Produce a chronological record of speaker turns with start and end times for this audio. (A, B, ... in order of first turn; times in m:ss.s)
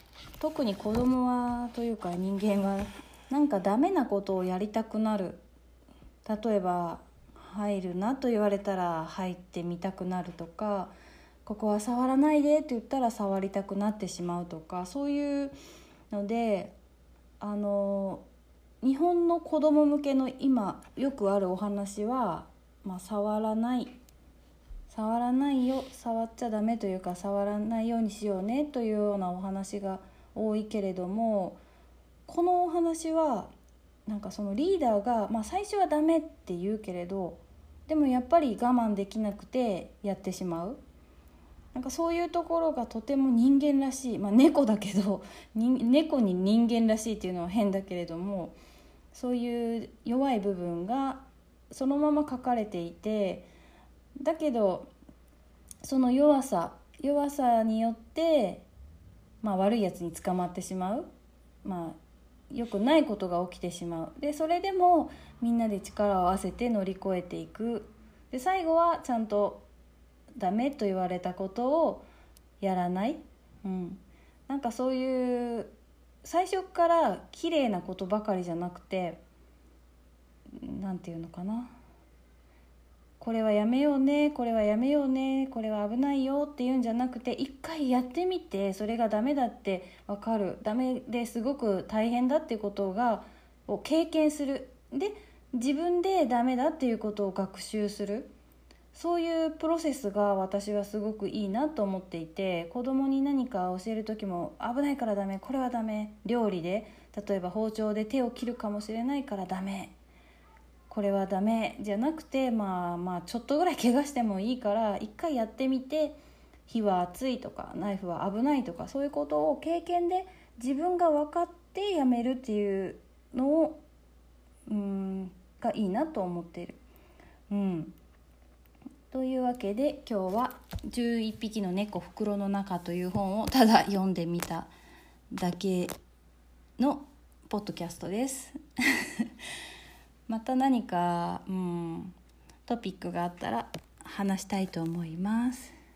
0:00.4-0:05.4 A
0:06.2-0:10.9 A
0:11.4-0:15.6 A
0:16.1-0:16.8 A
0:17.4-0:18.2 A
0:18.8-0:23.9 A
0:24.9-0:31.6 A
0:32.3-0:33.5 A
0:34.1-0:40.8 A
0:41.7-0:48.6 A
0:49.1-0:53.5 A
0:54.2-0:54.9 A
0:55.8-0:58.6 A
0:59.4-1:01.1 A
1:01.6-1:02.0 A
1:02.5-1:09.7 A
1:10.4-1:12.1 A
1:12.6-1:19.2 A
1:20.5-1:21.7 A
1:23.2-1:38.3 A
1:38.9-1:49.9 A
1:50.9-2:03.8 A
2:04.7-2:06.8 A
2:07.5-2:08.0 A
2:09.1-2:14.7 A
2:15.3-2:16.0 A
2:16.8-2:19.3 A
2:20.3-2:25.7 A